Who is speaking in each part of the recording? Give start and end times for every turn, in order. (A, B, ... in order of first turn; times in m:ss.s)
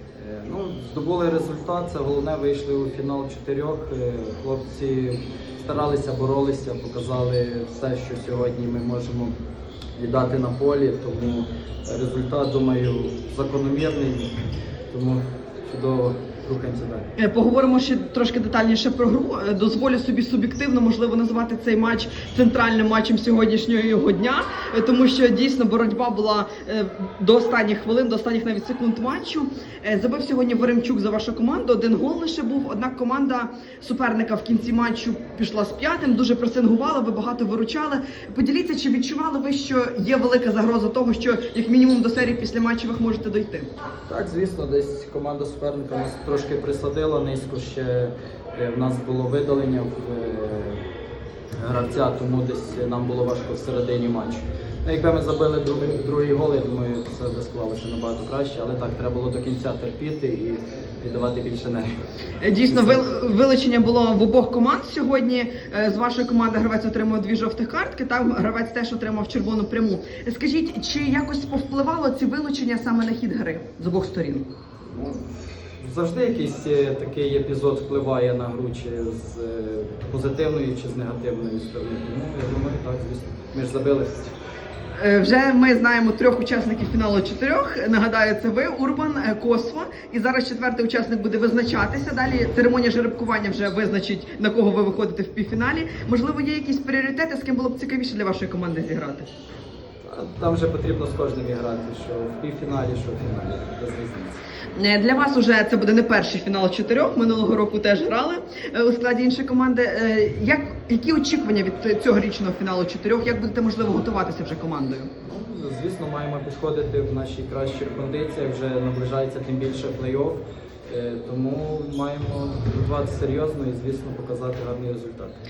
0:00.2-0:09.3 A
0:10.0-0:14.3 A
0:14.9-0:17.1 A
0:17.2-0:43.7 B
0:44.1-0:50.8 A
0:51.6-1:01.9 A
1:02.4-1:14.4 B
1:02.7-1:03.1 A
1:15.8-1:24.3 A
1:25.0-1:39.3 B
1:40.0-1:44.4 A
1:44.7-1:55.1 B
1:55.2-2:05.4 A